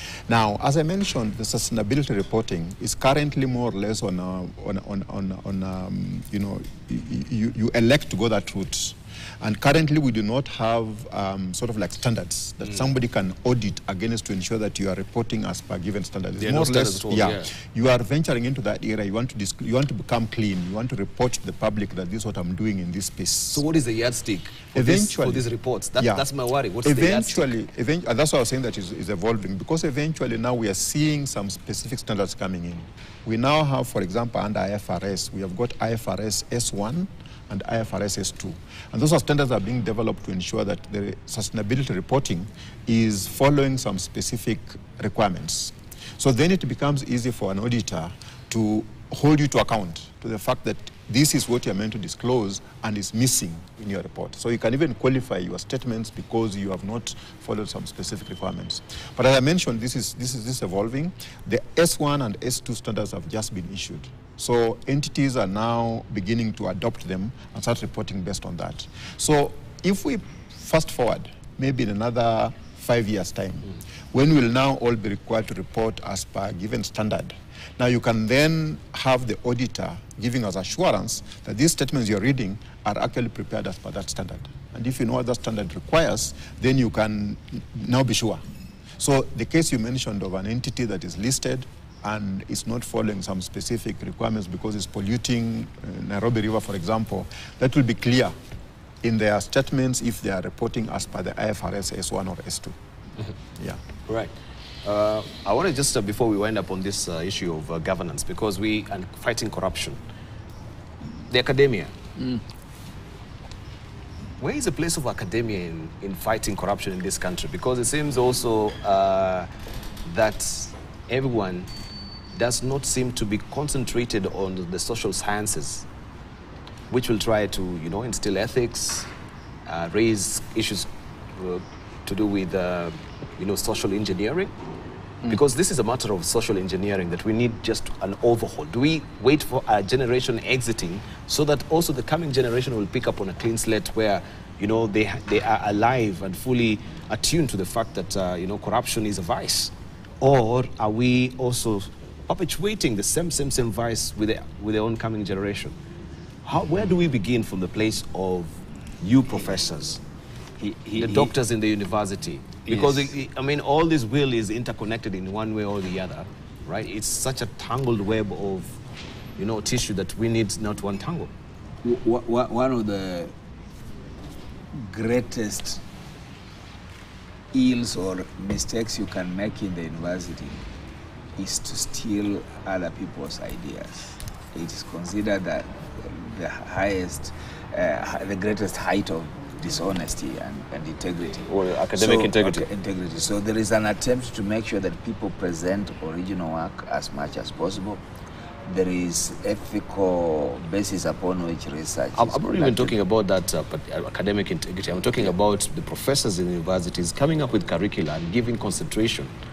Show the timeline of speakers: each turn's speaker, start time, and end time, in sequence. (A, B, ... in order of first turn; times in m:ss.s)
0:00.3-0:23.6 A
0:16.4-0:17.5 B
0:23.5-0:27.5 B
0:24.8-0:26.3 A
0:26.8-1:28.4 A
1:29.0-1:38.4 A
1:39.0-1:42.8 A
1:43.6-1:43.8 A
1:44.1-1:44.3 B
1:44.8-1:50.0 B
1:51.3-1:51.9 B
1:54.4-1:59.5 B
2:00.0-2:01.7 B
2:02.4-2:05.9 B
2:06.9-2:09.1 B
2:09.7-2:14.5 B
2:15.3-2:35.8 B
2:36.4-2:40.0 B
2:40.6-2:41.3 C
2:41.0-2:48.7 B
2:42.7-2:43.1 C
2:49.4-2:51.3 B
2:51.8-2:53.3 C
2:54.7-2:55.8 C
2:57.5-3:00.6 C
3:01.4-3:18.0 C
3:11.5-3:12.7 B
3:18.7-3:23.0 C
3:22.2-3:29.3 B